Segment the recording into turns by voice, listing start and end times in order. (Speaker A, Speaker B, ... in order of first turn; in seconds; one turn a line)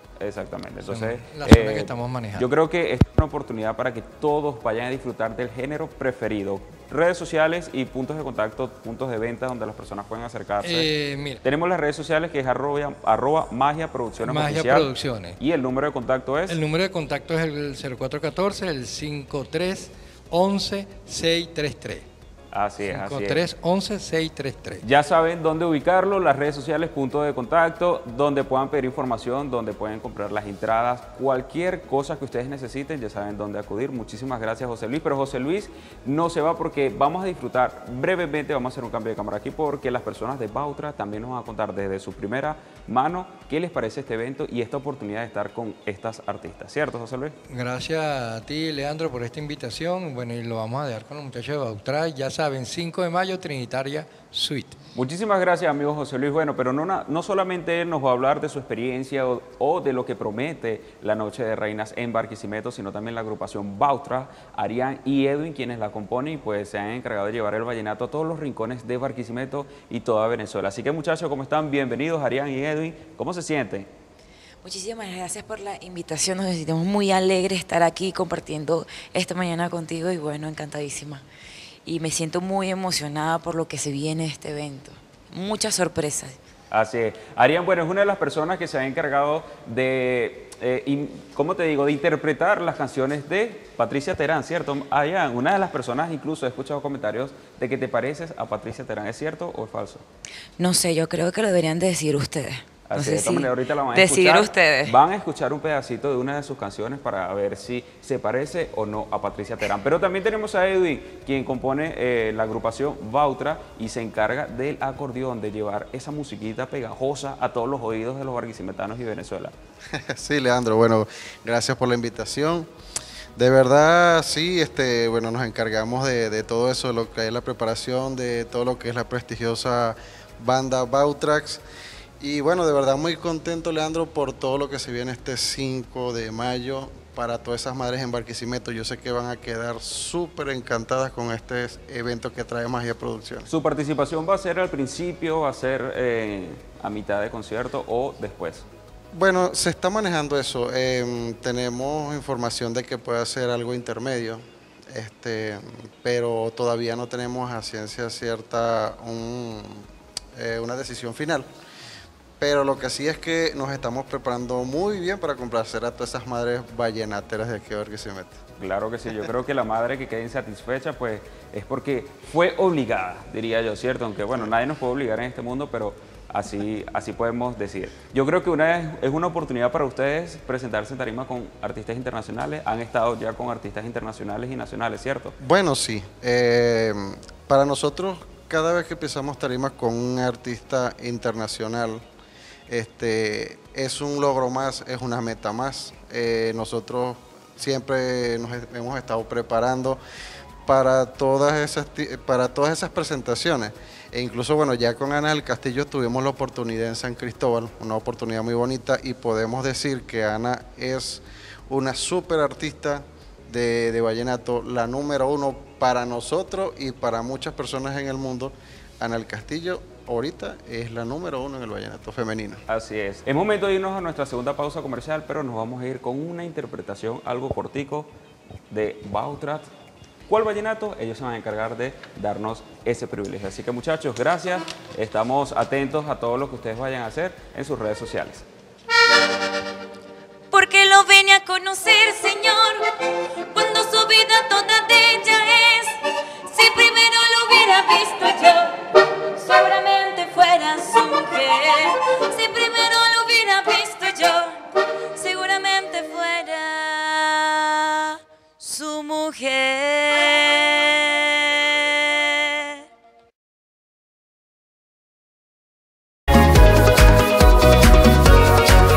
Speaker A: 0.2-10.9
Speaker B: 0.9-2.5
Speaker B: 10.6-11.4
Speaker A: 11.4-16.6
Speaker B: 14.2-15.4
Speaker B: 16.5-22.1
Speaker A: 22.5-23.4
Speaker B: 22.9-24.8
Speaker A: 24.8-47.4
Speaker B: 47.5-54.8
Speaker A: 55.0-73.9
Speaker C: 74.6-81.2
Speaker C: 81.8-86.4
Speaker A: 86.7-100.0
Speaker C: 100.6-105.0
Speaker A: 102.9-119.5
Speaker D: 119.9-122.7
Speaker D: 123.4-131.6
Speaker D: 132.2-143.5
Speaker A: 143.5-148.7
Speaker D: 149.1-161.5
Speaker D: 162.4-168.4
Speaker A: 168.6-185.4
Speaker D: 185.4-192.0
Speaker D: 192.7-200.0
Speaker D: 200.7-222.6
Speaker A: 222.7-228.1
Speaker A: 228.7-229.7
Speaker A: 230.3-238.5
Speaker E: 240.5-242.8
Speaker E: 243.5-262.7